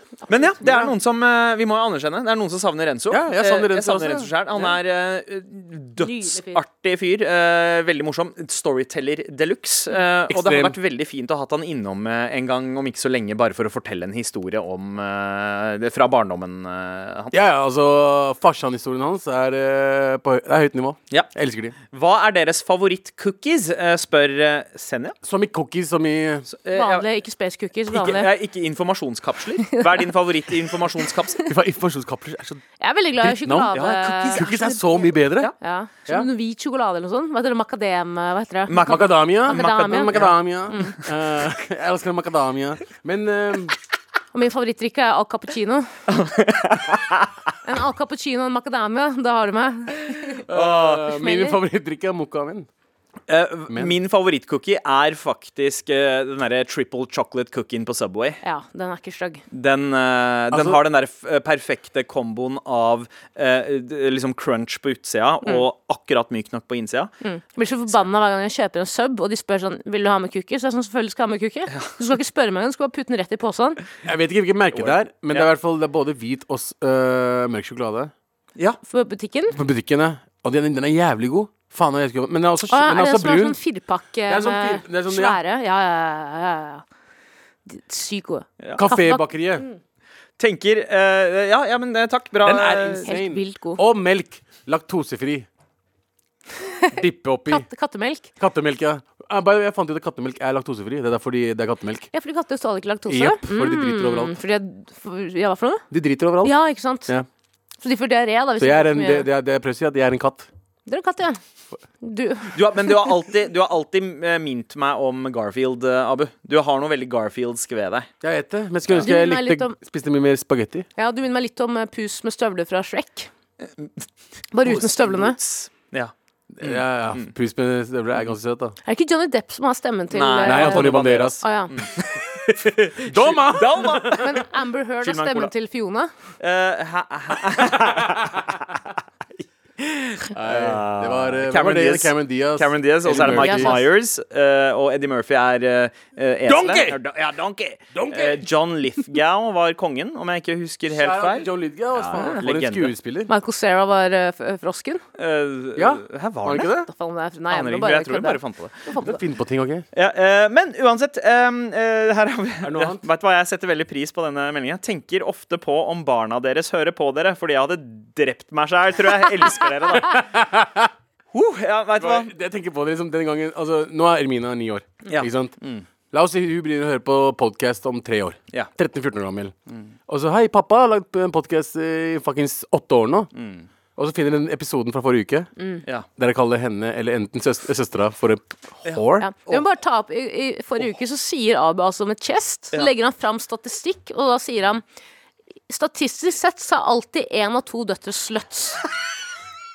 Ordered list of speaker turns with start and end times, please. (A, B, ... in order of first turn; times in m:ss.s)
0:00.3-0:00.8 A
0:00.3-0:17.3 B
0:03.1-0:04.8 C
0:06.0-0:06.6 A
0:10.3-0:10.8 C
0:17.3-0:21.7 C
0:21.9-0:25.1 B
0:25.2-0:26.5 C
0:26.5-0:27.0 B
0:26.7-0:28.3 A
0:27.9-0:31.4 B
0:29.7-0:30.1 A
0:31.4-0:32.6 C
0:32.8-0:34.6 A
0:33.2-0:33.8 C
0:33.7-0:35.5 B
0:34.3-0:35.5 C
0:35.6-0:41.0 A
0:38.7-0:40.3 B
0:38.8-0:43.7 C
0:44.3-0:45.9 A
0:46.1-0:47.3 B
0:47.6-0:50.4 A
0:50.5-0:52.7 C
0:50.5-0:51.1 B
0:51.1-0:51.6 A
0:53.3-0:58.4 B
0:53.7-0:53.9 C
0:58.4-0:59.4 A
0:59.5-1:07.1 B
1:00.5-1:00.8 C
1:07.2-1:13.8 A
1:14.0-1:18.1 C
1:14.7-1:15.5 B
1:18.9-1:19.6 A
1:19.5-1:23.6 C
1:22.7-1:26.8 A
1:24.3-1:25.4 C
1:27.6-1:29.8 A
1:28.8-1:29.6 C
1:30.4-1:33.1 B
1:32.4-1:35.5 C
1:33.0-1:33.8 A
1:36.9-1:37.7 C
1:37.5-1:38.3 A
1:38.4-1:42.1 C
1:42.1-1:45.8 A
1:43.1-1:44.3 C
1:45.9-1:46.5 C
1:46.4-1:47.1 A
1:47.8-1:49.3 A
1:48.6-1:50.5 C
1:50.9-1:51.4 A
1:52.0-1:52.6 A
1:52.5-1:58.1 B
1:58.2-2:00.9 C
1:59.0-1:59.8 A
2:01.0-2:03.3 A
2:04.5-2:05.4 A
2:04.6-2:07.3 B
2:06.5-2:08.8 C
2:08.8-2:11.7 A
2:10.1-2:14.4 B
2:10.4-2:11.4 C
2:13.0-2:14.2 C
2:14.0-2:16.1 A
2:15.0-2:15.5 B
2:16.4-2:18.8 B
2:19.8-2:32.9 B
2:20.3-2:23.8 C
2:23.2-2:23.8 A
2:26.5-2:27.0 C
2:27.9-2:28.4 C
2:30.9-2:33.3 C
2:33.3-2:35.0 A
2:35.2-2:36.7 B
2:35.8-2:36.9 C
2:36.8-2:39.2 A
2:37.5-2:38.8 B
2:39.0-2:39.8 C
2:39.9-2:50.3 B
2:42.6-2:43.0 C
2:50.0-2:50.9 C
2:51.3-2:52.3 B
2:52.0-2:55.5 C
2:55.1-2:55.9 B
2:56.1-2:59.5 C
3:00.1-3:03.3 C
3:03.3-3:03.7 B
3:04.0-3:05.5 C
3:05.6-3:05.8 A
3:06.2-3:09.3 C
3:08.8-3:09.6 B
3:09.2-3:14.8 A
3:15.7-3:18.8 A